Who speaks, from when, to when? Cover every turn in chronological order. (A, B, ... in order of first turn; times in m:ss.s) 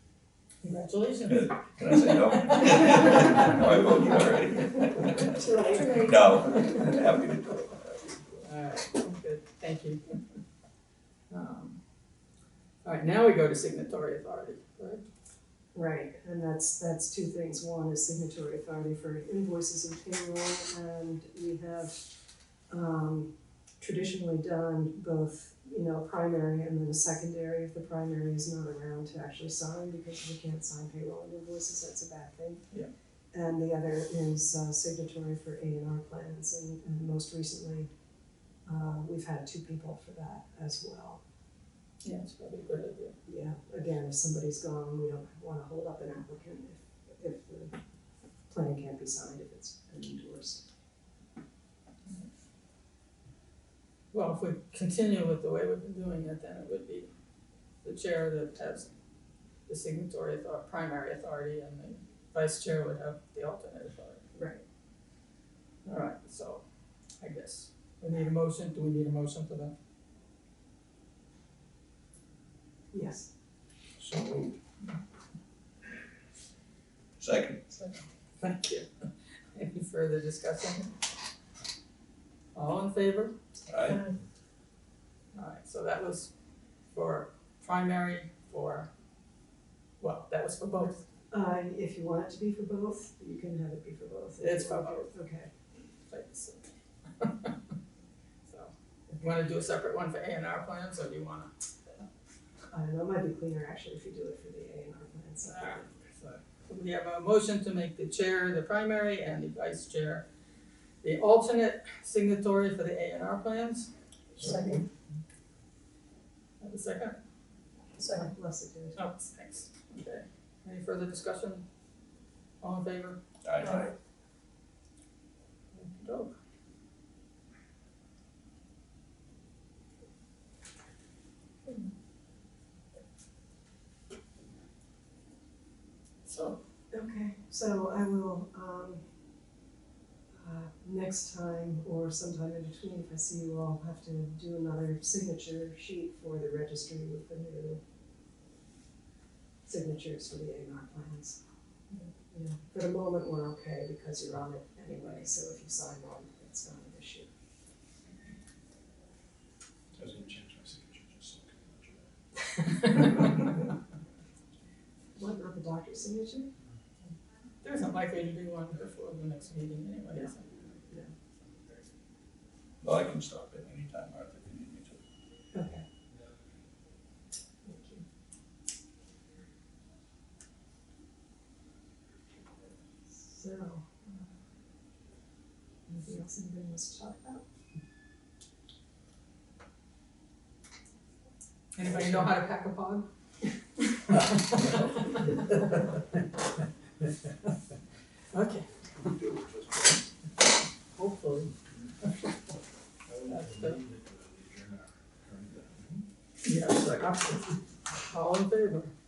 0:00.6-0:03.6 A
0:01.3-0:08.4 B
0:05.3-0:06.7 C
0:05.4-0:06.1 D
0:08.4-0:10.0 A
0:11.3-0:11.8 A
0:12.8-0:15.0 A
0:15.7-0:22.1 C
0:22.7-0:32.6 C
0:33.3-0:37.9 C
0:38.6-0:41.2 C
0:42.0-0:43.1 A
0:43.2-0:47.7 C
0:48.5-0:50.6 C
0:54.1-0:57.1 A
0:57.8-0:58.9 A
0:59.7-1:04.2 A
1:04.3-1:04.6 C
1:05.8-1:06.6 A
1:07.2-1:09.7 A
1:12.9-1:13.3 C
1:14.0-1:14.6 B
1:17.2-1:17.6 B
1:17.7-1:18.9 A
1:19.5-1:20.9 A
1:22.5-1:23.3 A
1:23.7-1:24.0 B
1:23.8-1:24.2 C
1:25.3-1:26.3 A
1:26.9-1:28.9 A
1:30.0-1:31.0 A
1:31.3-1:35.5 C
1:34.4-1:35.1 A
1:36.1-1:36.7 A
1:37.2-1:37.5 A
1:38.4-1:41.5 A
1:42.7-1:45.9 C
1:45.4-1:50.2 A
1:51.0-1:53.9 A
1:54.4-1:54.8 D
1:54.4-1:54.8 C
1:56.6-1:57.2 A
1:58.0-1:59.0 C
1:59.0-2:01.6 A
2:02.6-2:03.2 A
2:03.4-2:03.9 B
2:03.6-2:03.8 C
2:05.7-2:06.3 A
2:16.2-2:16.6 A
2:16.9-2:19.0 C
2:20.3-2:27.8 C
2:29.6-2:31.4 C
2:32.3-2:37.3 C
2:39.9-2:42.1 D
2:42.8-2:43.2 A
2:45.2-2:46.5 C
2:47.6-2:50.5 A
2:52.8-2:55.0 B
2:55.5-2:55.8 C
2:57.6-2:58.0 C
3:03.2-3:04.0 C
3:05.9-3:07.4 C
3:11.7-3:13.1 A
3:14.1-3:15.2 A
3:18.3-3:18.7 A
3:19.2-3:19.8 B
3:20.9-3:21.5 A
3:23.1-3:26.0 D
3:23.2-3:23.8 A
3:26.4-3:27.5 A
3:28.0-3:28.9 A